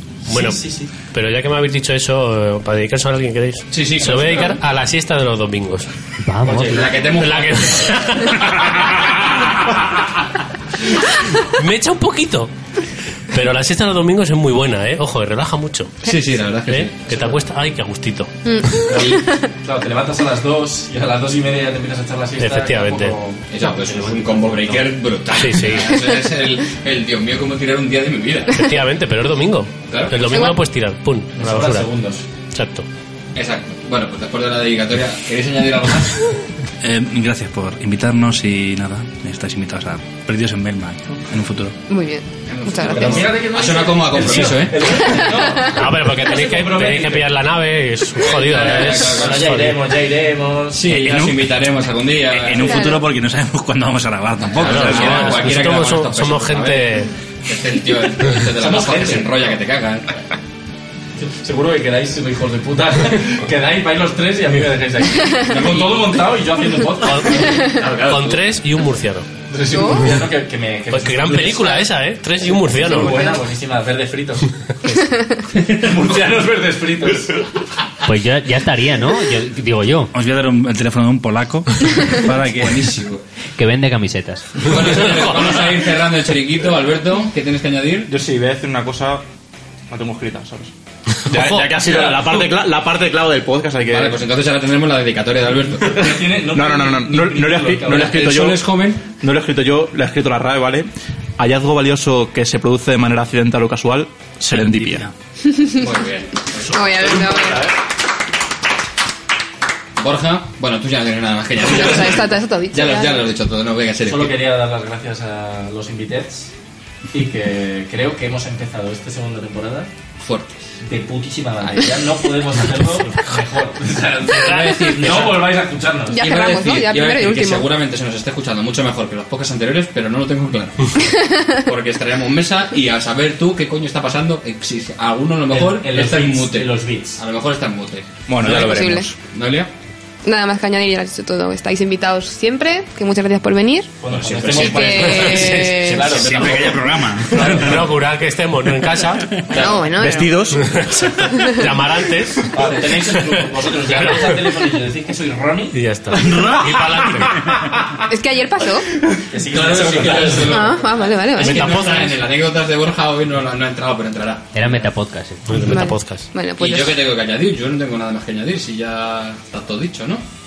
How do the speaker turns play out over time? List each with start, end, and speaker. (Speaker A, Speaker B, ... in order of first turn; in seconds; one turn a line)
Speaker A: 0.3-0.9
Speaker B: 0.3-5.9
Speaker C: 3.7-4.6
Speaker D: 6.2-7.0
Speaker A: 6.4-6.9
Speaker C: 6.6-9.3
Speaker B: 7.0-8.7
Speaker B: 11.4-12.5
Speaker B: 13.3-15.9
Speaker C: 16.0-17.4
Speaker B: 16.7-18.8
Speaker E: 18.4-19.5
Speaker C: 18.9-19.2
Speaker A: 19.6-23.4
Speaker B: 22.4-23.1
Speaker C: 23.5-28.7
Speaker D: 23.6-24.8
Speaker B: 25.3-26.0
Speaker B: 28.5-31.9
Speaker C: 29.9-30.2
Speaker E: 30.2-30.6
Speaker A: 31.3-32.2
Speaker B: 32.5-32.9
Speaker C: 33.3-36.3
Speaker F: 36.8-41.8
Speaker E: 41.9-43.3
Speaker C: 42.5-45.4
Speaker A: 42.9-47.3
Speaker B: 45.6-49.8
Speaker C: 48.3-49.5
Speaker A: 48.5-50.8
Speaker C: 50.7-52.9
Speaker F: 50.9-51.6
Speaker F: 52.3-55.5
Speaker E: 52.5-53.0
Speaker C: 54.4-60.1
Speaker B: 54.6-57.1
Speaker A: 58.5-59.5
Speaker A: 61.2-67.8
Speaker C: 65.4-66.2
Speaker B: 67.0-69.3
Speaker E: 67.5-67.8
Speaker C: 67.7-68.4
Speaker A: 69.5-71.9
Speaker E: 69.7-70.2
Speaker B: 70.9-73.2
Speaker A: 72.7-74.5
Speaker E: 72.8-73.4
Speaker A: 75.6-77.5
Speaker D: 78.0-80.1
Speaker F: 80.1-82.9
Speaker C: 82.4-83.2
Speaker D: 83.6-85.1
Speaker C: 84.6-88.1
Speaker G: 88.1-89.2
Speaker G: 89.9-90.7
Speaker B: 91.2-91.7
Speaker G: 91.3-94.2
Speaker A: 91.8-92.2
Speaker C: 93.9-96.1
Speaker A: 95.9-98.2
Speaker G: 96.5-105.1
Speaker C: 97.9-99.0
Speaker F: 104.6-105.1
Speaker E: 105.5-105.8
Speaker C: 105.7-107.6
Speaker E: 106.7-107.7
Speaker C: 110.0-114.3
Speaker E: 111.6-113.3
Speaker A: 114.0-116.5
Speaker A: 117.1-119.9
Speaker C: 120.2-120.6
Speaker A: 120.8-126.3
Speaker C: 124.3-125.6
Speaker B: 124.3-124.7
Speaker E: 126.1-127.7
Speaker C: 126.2-139.7
Speaker A: 135.5-137.2
Speaker G: 138.3-139.1
Speaker E: 138.4-139.1
Speaker E: 140.2-143.9
Speaker A: 144.0-147.9
Speaker C: 144.1-145.2
Speaker E: 144.5-146.2
Speaker B: 144.6-145.7
Speaker C: 145.9-146.2
Speaker F: 146.0-147.9
Speaker B: 147.4-149.4
Speaker E: 149.5-150.5
Speaker G: 149.5-150.8
Speaker B: 150.5-154.5
Speaker E: 151.3-151.8
Speaker A: 152.5-155.8
Speaker B: 155.7-157.6
Speaker F: 156.1-157.7
Speaker E: 158.1-158.8
Speaker A: 159.3-160.8
Speaker C: 159.5-164.9
Speaker E: 160.4-162.0
Speaker B: 161.3-162.2
Speaker D: 164.5-165.8
Speaker B: 165.5-166.3
Speaker E: 165.6-167.0
Speaker C: 166.6-170.2